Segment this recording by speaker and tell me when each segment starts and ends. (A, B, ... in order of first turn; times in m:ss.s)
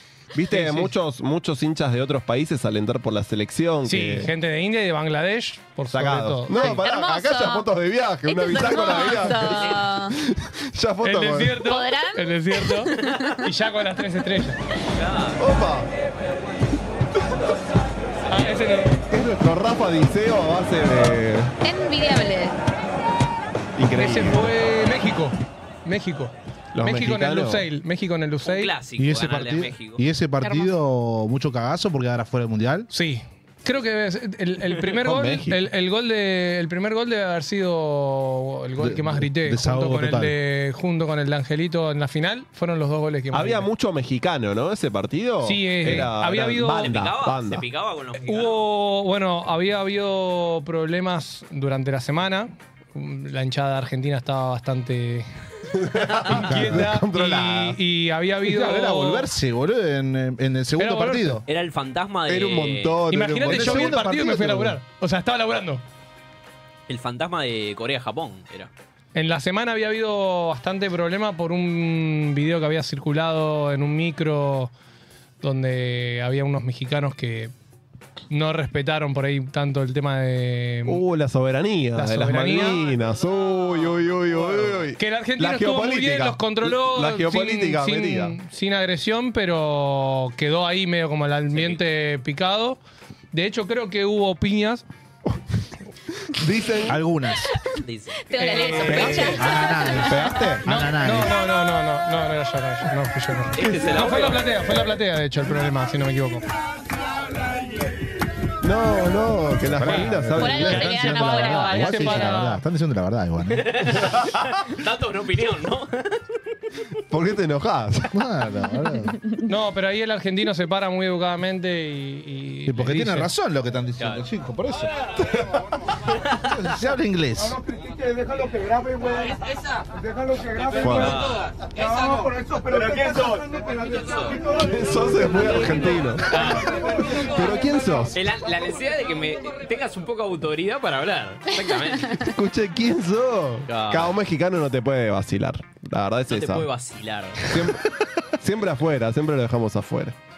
0:00.3-0:04.3 A
0:00.5-0:00.9 B
0:03.8-0:06.8 B
0:05.9-0:11.6 A
0:06.6-0:07.7 C
0:08.2-0:10.2 C
0:09.5-0:09.8 D
0:11.0-0:14.6 B
0:11.6-0:13.3 C
0:14.9-0:15.4 D
0:15.4-0:15.9 A
0:18.3-0:19.0 B
0:19.1-0:21.5 A
0:21.6-0:22.6 C
0:23.8-0:24.5 A
0:24.0-0:28.7 B
0:26.7-0:27.6 A
0:28.4-0:30.0 D
0:29.0-0:32.9 E
0:30.4-0:30.8 C
0:32.9-0:43.7 B
0:35.0-0:35.6 A
0:38.8-0:40.3 E
0:43.3-0:47.6 A
0:45.4-0:46.9 B
0:46.7-0:48.6 D
0:48.2-0:55.3 B
0:55.7-0:57.8 A
0:56.2-0:59.3 B
0:56.4-0:56.9 E
0:58.4-1:01.4 E
1:00.8-1:01.4 B
1:01.5-1:03.0 D
1:02.3-1:04.0 A
1:03.1-1:05.8 B
1:03.4-1:04.8 E
1:06.9-1:08.7 D
1:09.1-1:14.7 B
1:15.4-1:17.5 B
1:18.3-1:21.0 B
1:20.8-1:28.3 A
1:21.9-1:22.8 B
1:22.8-1:24.8 D
1:25.0-1:32.8 B
1:31.5-1:31.8 D
1:33.3-1:34.8 B
1:36.3-1:37.0 A
1:36.9-1:37.5 E
1:37.8-1:39.1 D
1:38.3-1:40.4 C
1:38.4-1:39.4 B
1:39.2-1:41.4 E
1:40.6-1:46.5 B
1:43.5-1:44.5 D
1:48.6-1:51.2 A
1:49.6-1:53.7 E
1:49.8-1:50.1 B
1:50.4-1:52.6 C
1:50.8-1:52.6 B
1:53.5-1:56.4 D
1:57.1-1:58.1 A
1:58.1-1:59.2 E
1:59.4-2:03.3 B
2:02.6-2:04.9 E
2:04.0-2:04.2 D
2:06.4-2:07.6 E
2:10.5-2:14.5 D
2:10.8-2:11.2 A
2:14.5-2:18.2 A
2:15.4-2:17.4 D
2:18.1-2:22.3 D
2:22.2-2:26.7 A
2:23.7-2:24.2 D
2:26.3-2:27.5 D
2:27.5-2:30.2 A